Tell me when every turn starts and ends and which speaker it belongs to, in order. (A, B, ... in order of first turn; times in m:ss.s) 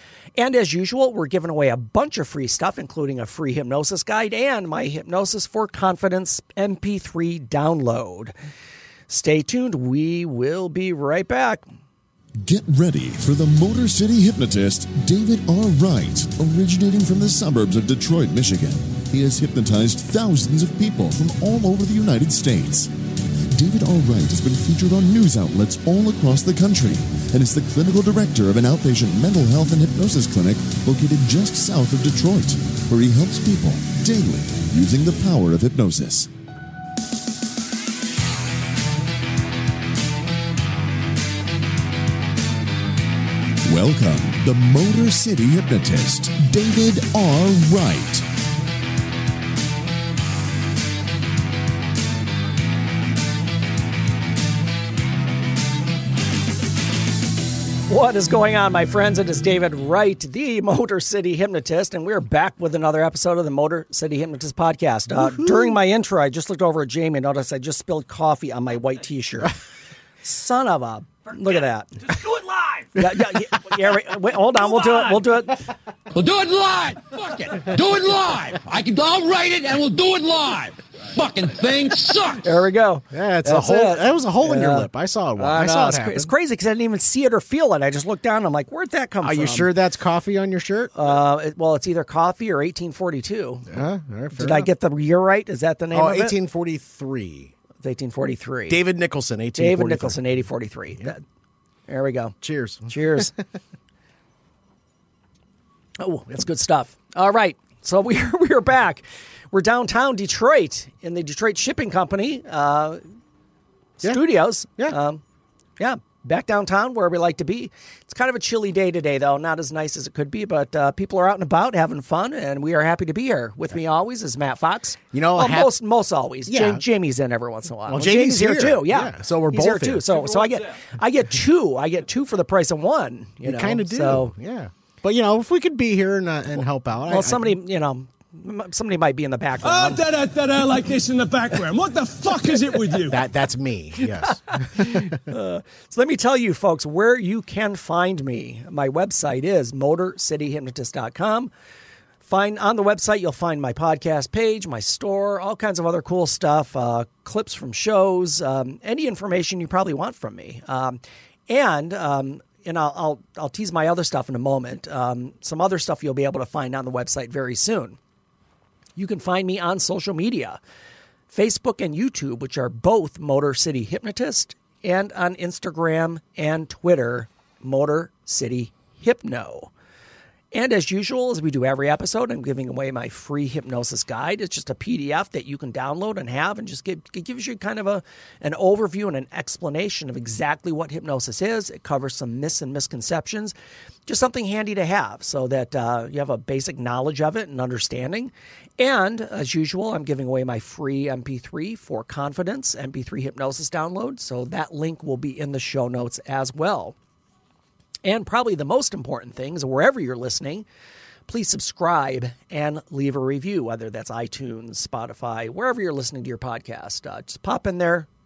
0:00.4-0:08.3 A
0:09.1-0:11.6 A
0:12.4-0:22.9 B
0:23.5-0:36.3 B
0:43.7-0:48.2 B
0:57.9-1:09.6 A
1:05.1-1:05.8 C
1:10.2-1:12.1 A
1:12.2-1:12.9 D
1:12.9-1:15.6 A
1:13.1-1:13.4 C
1:14.6-1:15.2 D
1:16.1-1:22.5 D
1:22.4-1:29.7 A
1:23.1-1:26.3 C
1:29.2-1:31.0 C
1:30.9-1:33.7 A
1:33.7-1:34.7 C
1:34.3-1:36.4 A
1:35.9-1:37.5 C
1:37.8-1:38.8 A
1:38.7-1:41.1 C
1:39.6-1:41.2 A
1:41.9-1:42.4 A
1:42.4-1:43.3 C
1:42.9-1:43.3 A
1:46.0-1:53.0 A
1:54.0-1:55.2 A
1:55.8-2:14.3 A
2:05.1-2:05.7 C
2:06.4-2:06.8 C
2:07.9-2:10.2 C
2:13.4-2:17.6 C
2:17.1-2:20.0 A
2:19.6-2:23.2 E
2:23.1-2:25.2 C
2:24.5-2:31.5 A
2:32.2-2:48.0 A
2:49.0-2:50.6 A
2:51.3-2:59.7 A
3:00.5-3:13.5 A
3:14.1-3:27.0 A
3:28.0-3:30.6 A
3:31.3-3:38.1 A